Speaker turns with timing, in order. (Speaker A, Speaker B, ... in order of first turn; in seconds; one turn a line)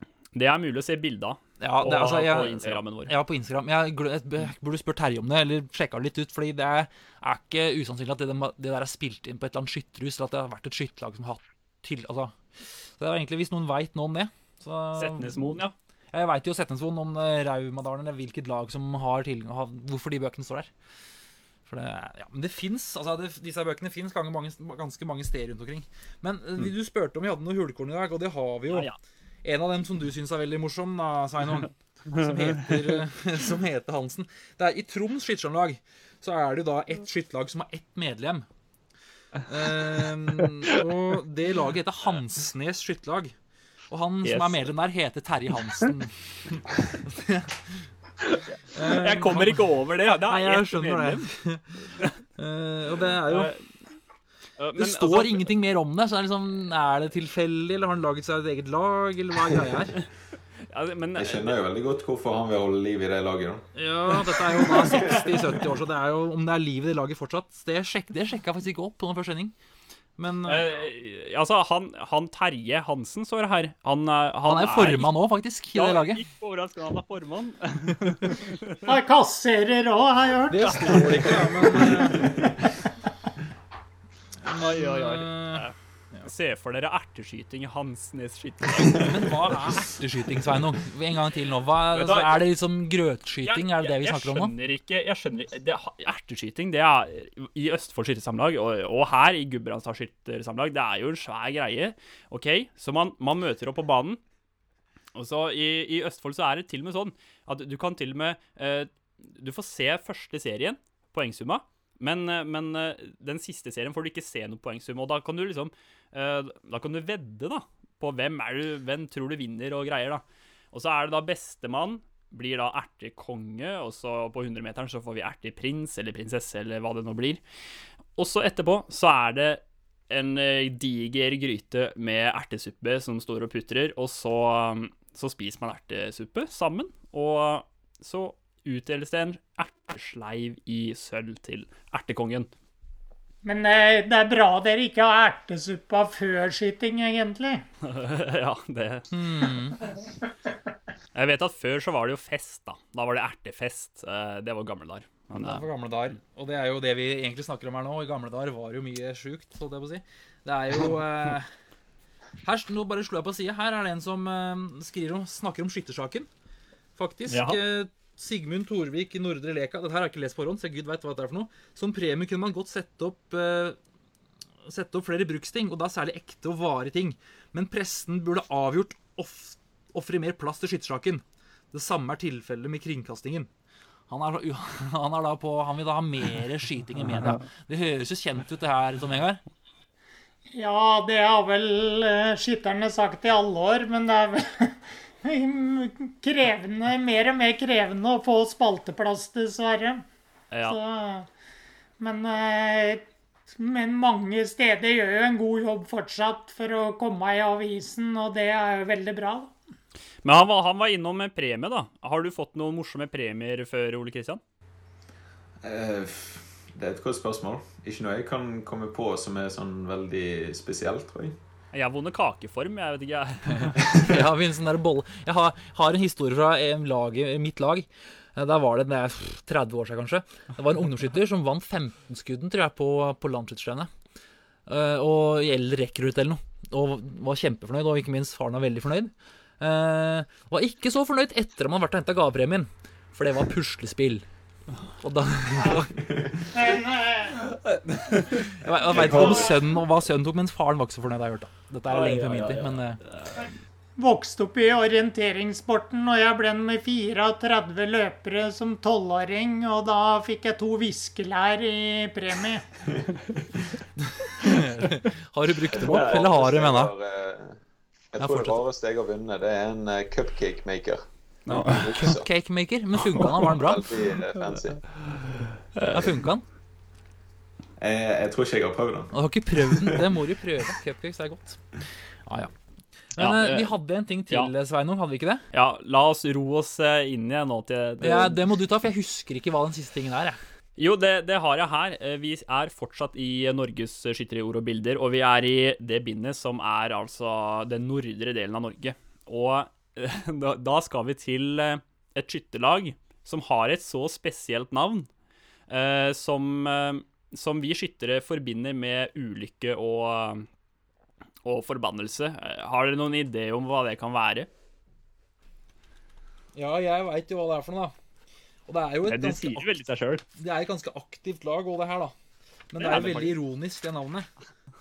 Speaker A: 0.3-3.1
Speaker B: 1.6-12.4
Speaker B: 13.0-15.4
Speaker A: 15.0-15.7
Speaker B: 16.1-20.7
Speaker B: 21.7-28.9
Speaker A: 28.7-29.0
Speaker B: 29.4-38.5
Speaker A: 32.1-32.5
Speaker B: 39.5-43.3
Speaker A: 39.7-40.5
Speaker B: 43.9-47.9
Speaker A: 44.2-44.6
Speaker A: 48.2-51.3
Speaker B: 48.7-49.6
Speaker B: 50.3-53.5
Speaker A: 53.3-53.7
Speaker A: 54.6-55.5
Speaker B: 54.8-60.0
Speaker A: 60.7-61.6
Speaker C: 61.1-63.7
Speaker B: 63.8-69.5
Speaker C: 64.8-65.3
Speaker B: 70.2-70.7
Speaker A: 70.5-75.1
Speaker B: 74.5-76.2
Speaker A: 75.7-78.9
Speaker D: 78.9-81.3
Speaker B: 80.5-82.5
Speaker A: 80.7-82.0
Speaker B: 84.5-86.3
Speaker A: 84.5-85.7
Speaker A: 86.2-89.3
Speaker B: 88.9-94.5
Speaker A: 91.9-92.4
Speaker A: 93.4-104.2
Speaker A: 105.2-127.4
Speaker A: 128.2-142.5
Speaker D: 143.4-147.6
Speaker A: 147.8-149.1
Speaker B: 149.1-149.8
Speaker A: 151.2-155.6
Speaker B: 155.3-161.5
Speaker B: 162.4-166.3
Speaker B: 167.0-173.8
Speaker A: 167.3-167.6
Speaker B: 174.7-183.5
Speaker B: 184.1-189.4
Speaker D: 190.6-200.1
Speaker A: 200.5-200.8
Speaker D: 200.7-201.3
Speaker D: 202.0-209.5
Speaker A: 210.2-214.4
Speaker C: 215.6-221.4
Speaker A: 221.7-223.9
Speaker B: 223.7-233.9
Speaker B: 234.7-244.3
Speaker B: 245.0-246.0
Speaker C: 246.0-246.4
Speaker D: 246.5-247.3
Speaker A: 247.4-248.5
Speaker B: 248.5-253.0
Speaker C: 248.9-249.5
Speaker A: 251.9-252.7
Speaker D: 254.0-262.7
Speaker B: 264.0-266.9
Speaker C: 265.7-267.6
Speaker C: 268.1-272.3
Speaker B: 268.2-268.6
Speaker A: 271.5-272.1
Speaker B: 271.5-273.9
Speaker C: 273.1-274.8
Speaker A: 275.8-276.0
Speaker B: 275.8-276.4
Speaker C: 277.8-280.0
Speaker B: 279.1-281.6
Speaker B: 282.3-282.5
Speaker B: 283.2-285.4
Speaker A: 283.2-283.8
Speaker A: 285.5-288.4
Speaker B: 288.0-290.4
Speaker A: 290.8-305.1
Speaker A: 305.7-310.5
Speaker A: 311.4-314.5
Speaker B: 316.6-317.9
Speaker B: 318.7-319.6
Speaker A: 319.1-320.2
Speaker B: 320.4-322.1
Speaker B: 322.7-324.3
Speaker A: 322.8-323.3